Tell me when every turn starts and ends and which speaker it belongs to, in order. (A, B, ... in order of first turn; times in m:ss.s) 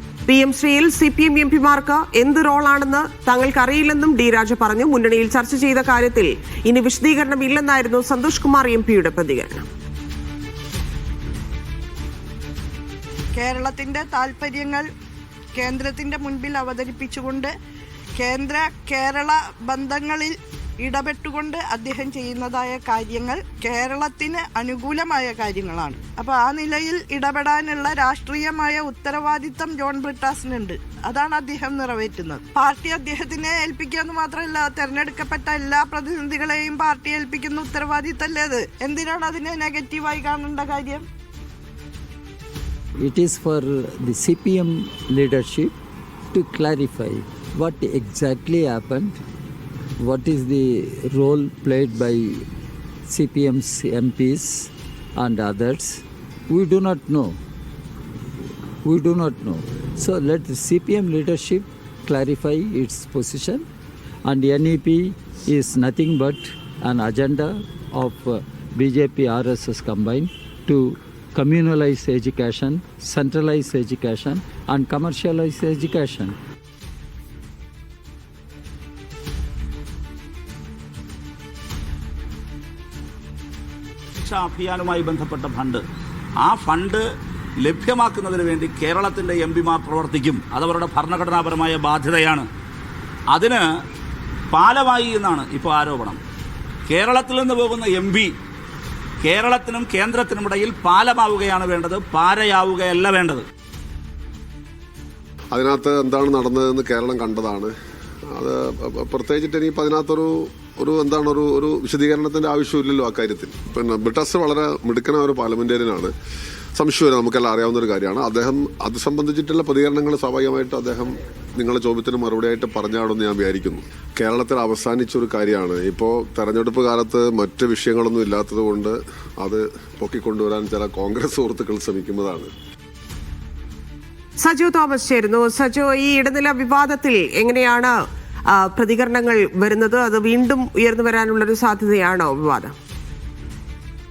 0:00.3-0:09.6 A
0:13.3-0:14.8 B
0:15.5-0:17.5 B
0:18.2-0:41.0 B
0:43.0-0:45.7 C
0:46.3-0:49.2 C
0:50.0-0:52.4 C
0:53.1-0:57.4 C
0:58.8-1:03.6 C
1:04.2-1:16.4 C
1:24.2-1:25.8 D
1:26.4-1:27.0 D
1:27.6-1:32.4 D
1:33.3-1:33.6 D
1:34.5-1:36.2 D
1:36.9-1:38.3 D
1:39.2-1:43.4 D
1:45.5-1:47.7 E
1:48.3-1:56.1 E
1:56.8-2:12.5 E
2:14.4-2:17.9 A
2:18.5-2:22.7 A